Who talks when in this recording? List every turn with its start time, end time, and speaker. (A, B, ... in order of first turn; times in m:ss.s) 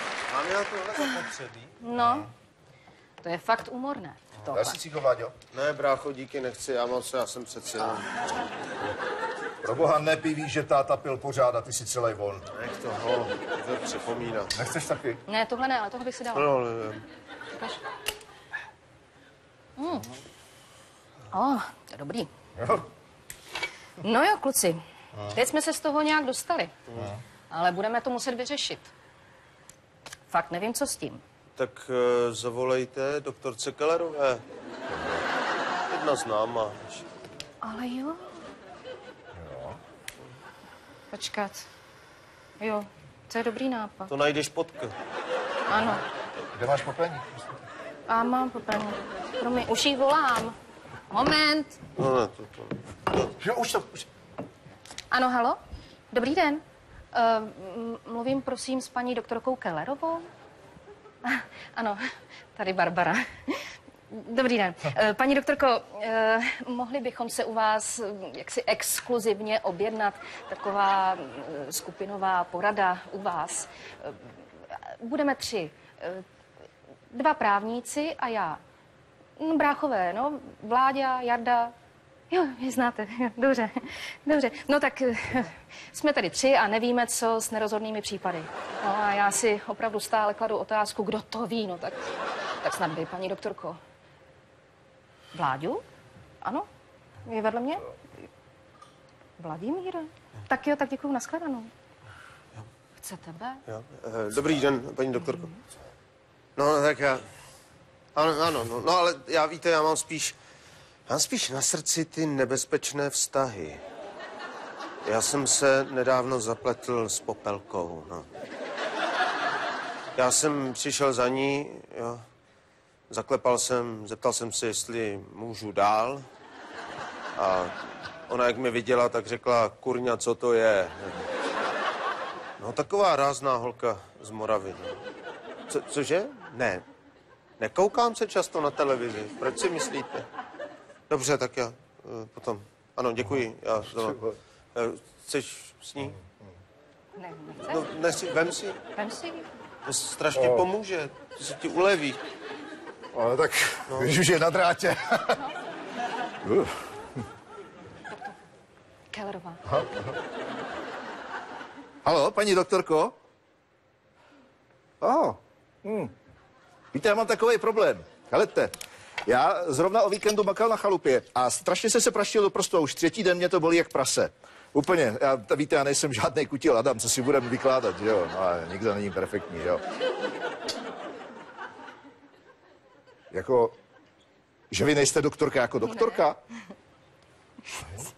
0:00.3-0:01.9 A
0:01.8-0:02.3 B
0:03.2-0:04.8 B
0:04.5-0:05.4 C
0:05.5-0:08.2 A
0:09.6-0:12.5 C
0:12.5-0:14.5 A
0:14.5-0:15.2 C
0:15.3-0:16.5 B
0:16.4-0:17.0 A
0:19.8-0:20.1 B
0:21.3-0:22.3 B
0:22.6-0:22.8 C
0:24.0-0:26.7 B
0:27.5-0:28.9 B
0:30.3-0:31.2 B
0:31.6-0:34.4 A
0:34.9-0:35.2 C
0:35.9-0:37.1 A
0:37.6-0:38.2 B
0:39.3-0:39.8 C
0:41.1-0:41.6 B
0:42.6-0:44.1 B
0:44.1-0:44.9 A
0:45.7-0:46.0 B
0:46.6-0:47.4 C
0:48.1-0:50.6 B
0:51.1-0:51.8 B
0:52.0-0:53.0 A
0:53.4-0:54.1 C
0:55.1-0:55.6 B
0:56.1-0:56.6 B
0:57.1-1:00.3 B
1:01.2-1:16.2 B
1:17.1-1:18.6 B
1:19.4-1:21.7 B
1:22.3-1:33.8 B
1:35.3-1:35.8 B
1:37.2-1:37.9 B
1:39.4-1:41.7 B
1:43.0-1:43.6 B
1:43.7-1:45.5 A
1:45.2-1:45.6 B
1:46.6-1:47.3 A
1:48.2-1:50.4 A
1:51.1-1:53.8 A
1:55.0-1:58.3 A
2:00.2-2:02.2 A
2:03.1-2:06.3 A
2:07.4-2:11.3 A
2:12.6-2:15.0 A
2:15.7-2:16.8 A
2:17.6-2:20.3 A
2:21.1-2:24.2 A
2:24.0-2:24.4 C
2:24.8-2:26.2 A
2:27.2-2:27.9 B
2:27.7-2:28.8 A
2:29.0-2:29.4 B
2:29.8-2:32.2 A
2:30.3-2:30.7 C
2:33.1-2:35.4 C
2:33.9-2:34.2 A
2:36.4-2:36.8 C
2:39.1-2:39.6 B
2:39.7-2:40.1 C
2:42.0-2:43.2 C
2:45.0-2:46.1 C
2:46.9-2:48.7 C
2:49.3-2:59.8 C
3:03.3-3:03.8 C
3:04.7-3:06.4 C